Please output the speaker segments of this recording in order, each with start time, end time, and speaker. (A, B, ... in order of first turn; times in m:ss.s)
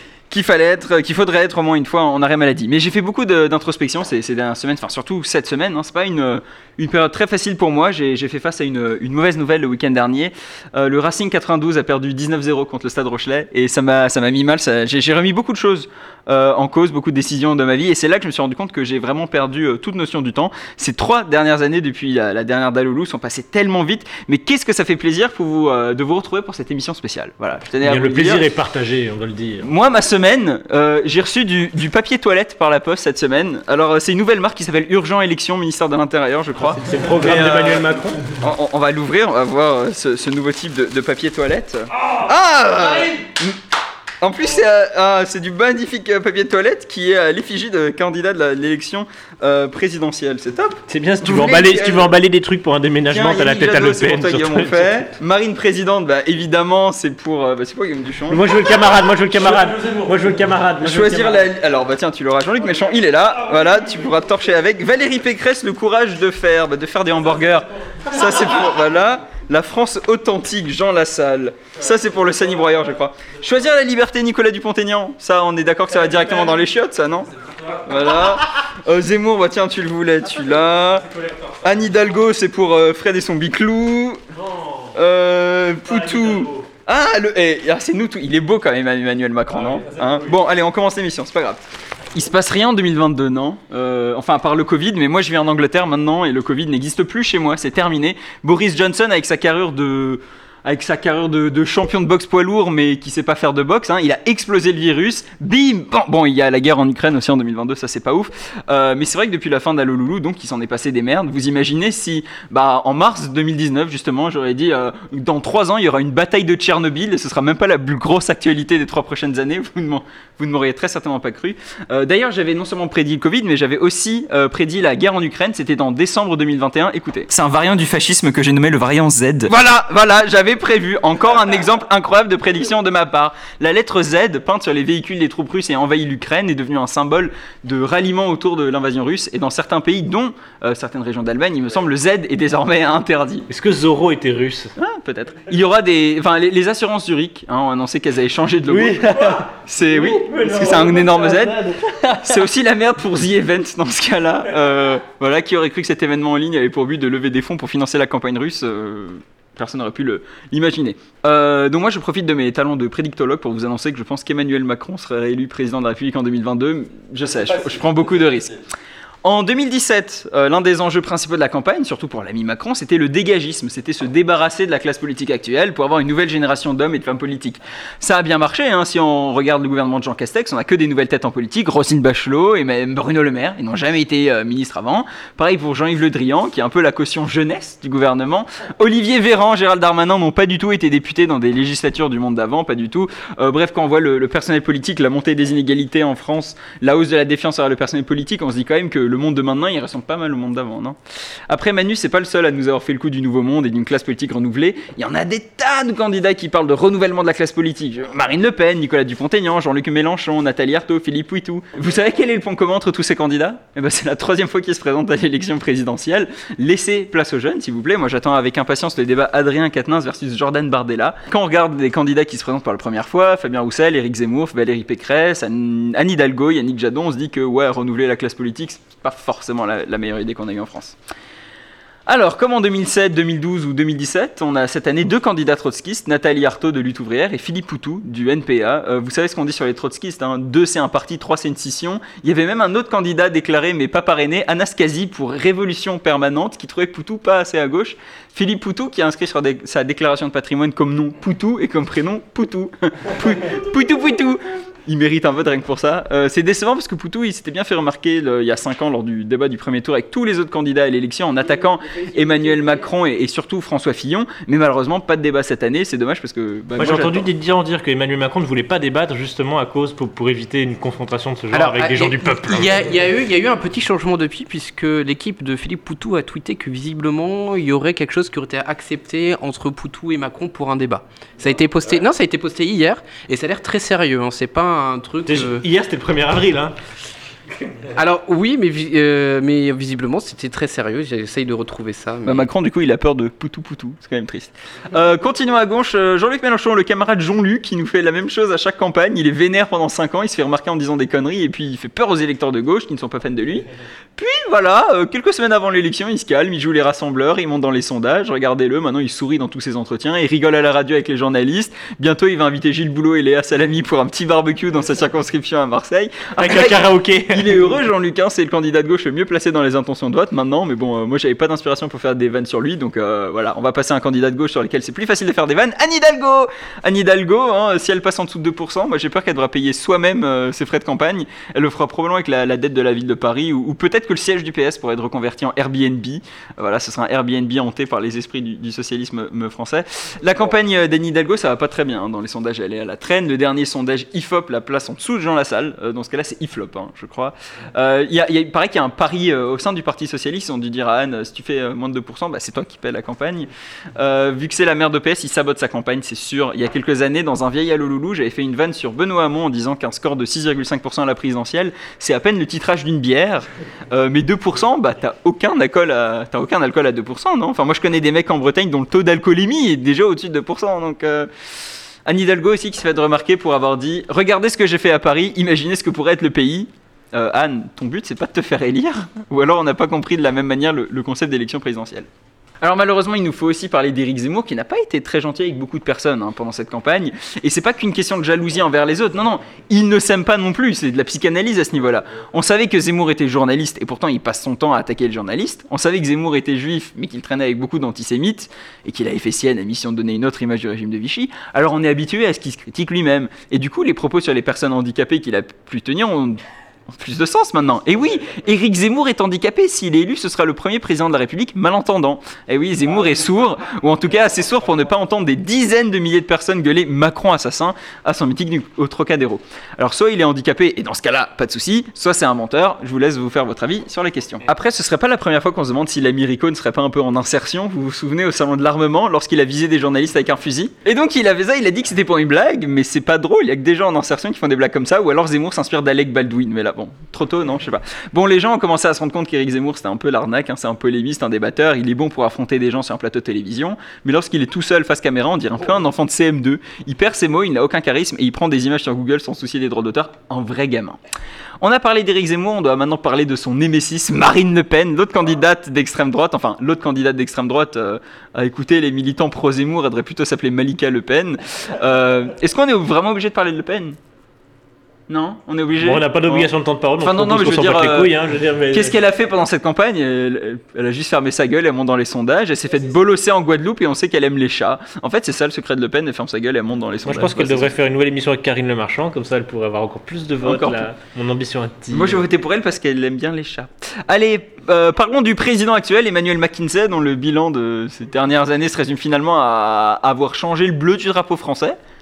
0:00.3-0:28.4 A
0:27.8-0:29.7 B
0:29.6-0:43.6 A
0:36.6-0:38.2 B
0:44.2-0:52.1 A
0:50.9-0:55.0 B
0:53.1-0:58.4 A
0:58.3-1:01.4 B
1:00.8-1:21.1 A
1:21.6-1:24.2 A
1:24.4-1:24.9 B
1:24.9-1:31.6 A
1:25.9-1:26.7 B
1:29.5-1:30.3 B
1:32.1-2:23.5 A
2:23.5-2:24.7 B
2:24.8-2:31.6 A
2:28.7-2:32.4 B
2:32.2-2:48.6 A
2:49.2-3:21.0 A
3:21.5-3:51.0 A
3:52.1-4:27.3 A
4:26.8-4:32.8 B
4:31.5-4:45.6 C
4:45.2-4:46.7 B
4:47.9-4:52.4 C
4:52.2-6:11.3 A
5:16.4-5:17.6 B
6:12.0-6:22.1 A
6:22.6-6:46.4 A
6:46.9-7:31.0 A
7:31.6-7:44.0 A
7:45.1-7:46.5 A
7:45.8-7:48.9 B
7:47.0-7:48.2 A
7:48.7-7:57.7 A
7:57.0-8:02.2 B
8:00.4-8:00.8 A
8:01.9-8:11.8 A